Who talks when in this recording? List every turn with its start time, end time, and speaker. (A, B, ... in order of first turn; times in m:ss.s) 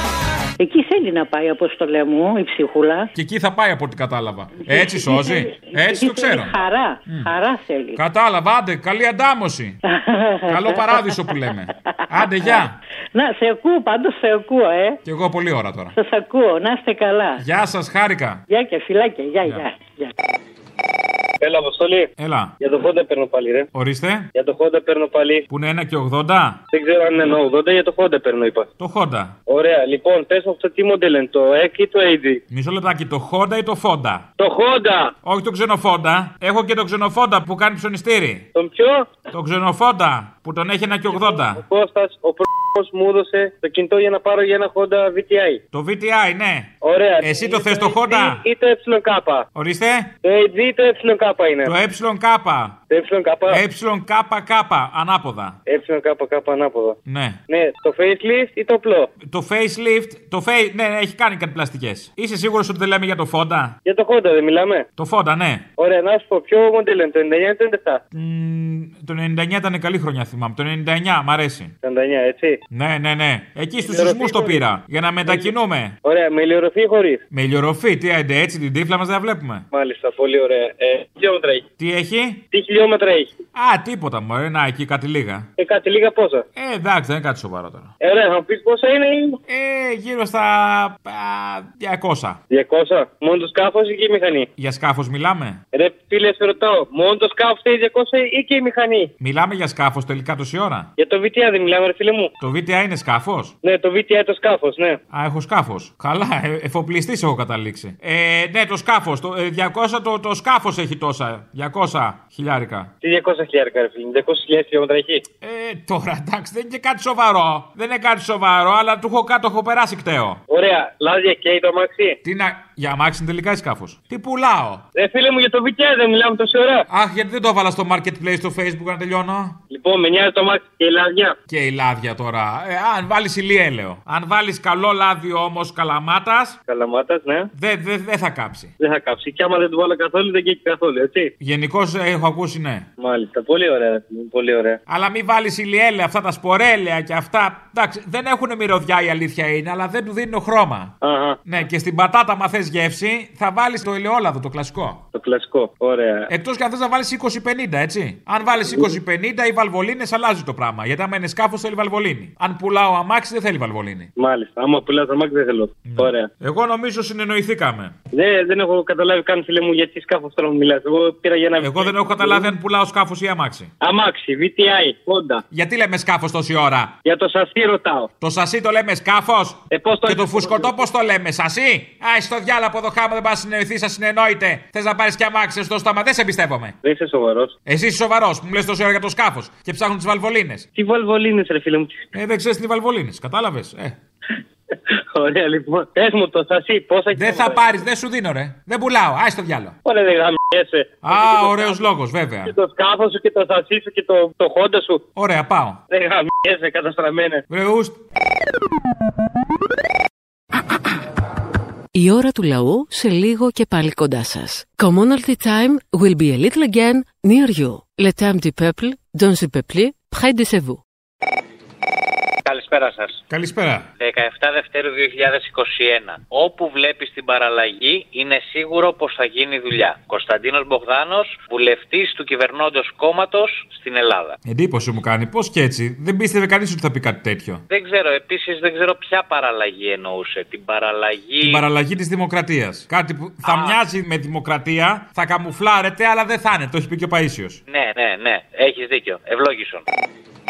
0:00.6-0:03.1 A
0:03.1-0:06.5 B
0:04.7-0:08.0 A
0:08.0-0:09.8 B
0:09.9-0:11.3 A
0:10.5-0:12.7 B
0:12.0-0:12.6 A
0:13.1-0:15.0 A
0:15.0-0:15.9 B
0:16.0-0:17.4 A
0:17.4-0:18.4 B
0:18.5-0:20.1 A
0:21.4-0:23.7 C
0:22.2-0:22.5 B
0:23.7-0:24.3 B
0:24.3-0:25.5 C
0:25.5-0:26.6 B
0:26.7-0:28.7 C
0:28.8-0:29.3 B
0:29.5-0:32.4 C
0:32.5-0:34.2 B
0:34.4-0:35.1 C
0:35.2-0:38.4 B
0:38.5-0:39.2 C
0:39.3-0:41.6 B
0:41.1-0:45.6 C
0:45.7-0:48.4 B
0:46.8-0:49.5 C
0:49.5-0:50.1 B
0:50.2-0:51.7 C
0:51.6-0:52.8 B
0:52.9-0:53.6 C
0:53.5-0:55.6 B
0:55.6-0:59.1 C
0:57.1-0:57.4 B
0:59.2-1:03.7 B
1:03.8-1:04.8 C
1:05.0-1:05.6 B
1:05.8-1:08.0 C
1:08.1-1:11.7 B
1:11.8-1:12.6 C
1:12.7-1:15.9 B
1:13.8-1:14.6 C
1:15.2-1:15.5 C
1:16.0-1:17.2 C
1:17.3-1:19.6 B
1:19.7-1:21.7 C
1:21.8-1:22.4 B
1:22.5-1:23.4 C
1:23.5-1:25.4 B
1:25.6-1:26.4 C
1:26.6-1:27.9 B
1:28.0-1:29.4 C
1:29.5-1:32.4 B
1:32.5-1:34.5 C
1:34.6-1:35.6 B
1:35.7-1:39.1 C
1:39.2-1:40.9 B
1:41.0-1:42.3 C
1:42.4-1:43.5 B
1:43.6-1:45.0 C
1:45.1-1:52.9 B
1:53.0-1:55.2 C
1:55.4-2:00.4 B
2:00.5-2:02.2 C
2:02.2-2:04.8 B
2:04.9-2:06.8 C
2:06.9-2:09.6 B
2:09.7-2:11.4 C
2:11.5-2:16.6 B
2:16.7-2:17.5 C
2:17.5-2:18.7 B
2:18.8-2:21.3 C
2:21.4-2:22.8 B
2:23.0-2:24.8 C
2:24.9-2:30.9 B
2:31.0-2:31.4 C
2:31.4-2:35.0 B
2:35.1-2:36.3 C
2:36.3-2:44.1 B
2:38.6-2:39.0 C
2:44.2-2:46.3 C
2:45.8-2:47.9 B
2:48.1-2:52.5 C
2:51.6-2:53.7 B
2:53.8-2:55.4 C
2:55.5-2:56.9 B
2:57.0-2:58.1 C
2:58.2-3:06.7 B
2:59.7-3:00.8 C
3:06.8-3:07.5 C
3:07.6-3:10.7 B
3:10.7-3:12.1 C
3:12.1-3:14.0 B
3:15.1-3:17.8 C
3:17.1-3:19.7 B
3:19.8-3:21.9 C
3:21.0-3:22.5 B
3:22.4-3:25.0 C
3:25.1-3:25.8 B
3:25.9-3:27.4 C
3:27.5-3:28.0 B
3:31.9-3:40.8 D
3:42.4-3:43.2 E
3:43.3-3:43.9 B
3:44.0-3:54.4 E
3:54.4-3:57.6 B
3:57.7-4:01.6 E
4:01.4-4:07.6 B
4:03.4-4:03.8 E
4:07.7-4:09.8 E